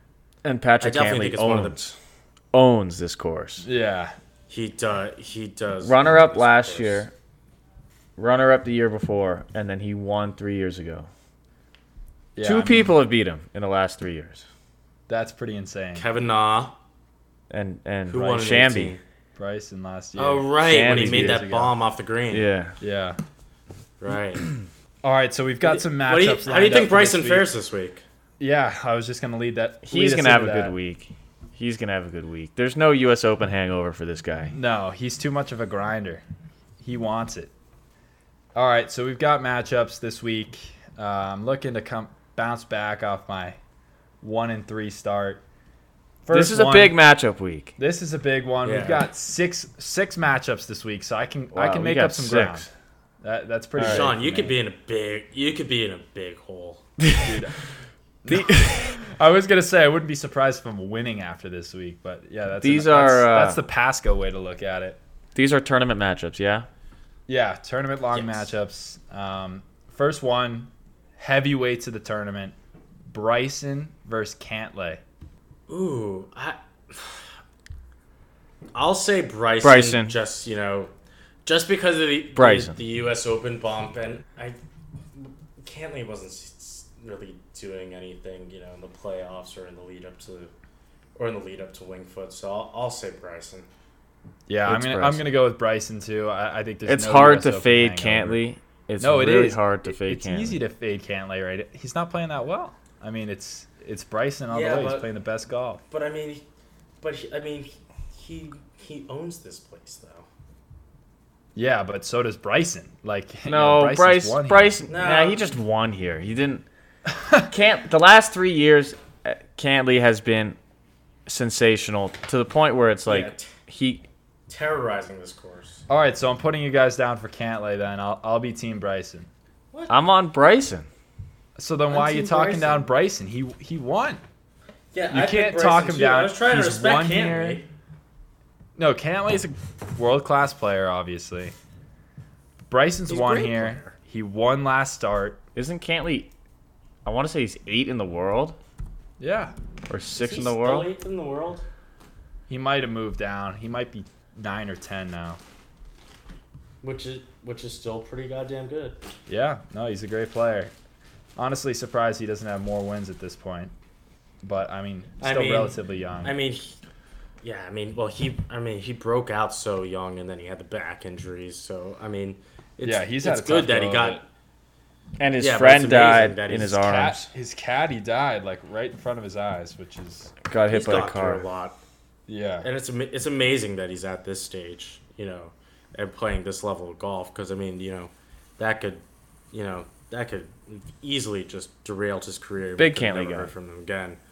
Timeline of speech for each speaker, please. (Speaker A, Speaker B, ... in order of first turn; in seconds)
Speaker A: 0.4-2.0, 2.5-3.7, 5.8-7.1, 8.2-11.1, 12.4-14.5, 17.5-19.0, 20.6-21.4, 22.3-22.8, 29.9-34.5, 46.3-47.7, 51.5-52.7, 53.8-54.1, 57.0-57.3, 58.3-58.9, 62.6-63.6, 65.3-66.7, 79.6-80.2, 82.3-82.8, 94.7-95.2, 96.9-100.6, 113.5-116.7, 117.5-120.6, 121.3-124.0, 129.9-130.9, 145.6-146.3, 147.1-148.6, 149.9-150.9, 175.2-177.3, 180.5-181.4, 192.8-193.5
Speaker B: 0.8-1.9, 4.5-7.1, 15.9-16.8, 18.1-19.0, 20.2-22.5, 24.0-24.5, 25.6-28.0, 48.6-49.1, 53.8-56.8, 68.1-68.5, 75.7-77.3, 78.7-80.9, 81.5-84.6, 85.1-90.5, 91.2-93.7, 104.5-105.1, 105.9-106.4, 107.0-110.3, 114.9-115.4, 123.1-123.5, 124.5-125.8, 131.9-132.8, 134.9-137.7, 143.1-143.9, 150.2-151.6, 156.8-159.0, 165.2-166.8, 167.4-174.2, 175.4-176.8, 180.7-181.8, 182.6-194.2
Speaker C: 3.6-4.2, 12.3-12.9, 15.1-16.1, 19.4-21.7, 22.8-23.2, 25.0-27.5, 28.4-30.8, 34.5-36.2, 36.8-37.5, 38.5-43.6, 44.2-45.4, 46.2-47.0, 47.8-52.7, 53.2-54.6, 57.2-57.6, 58.2-65.0, 67.3-72.5, 73.1-75.0, 94.5-98.4, 99.0-105.8, 111.5-114.8, 117.2-117.5, 125.9-129.3, 131.6-134.2, 135.1-137.6, 138.8-141.6, 142.7-145.4, 149.2-149.5, 152.5-155.4, 159.3-160.7, 161.4-163.7, 164.4-166.4, 172.8-174.2, 176.6-180.3, 182.3-182.7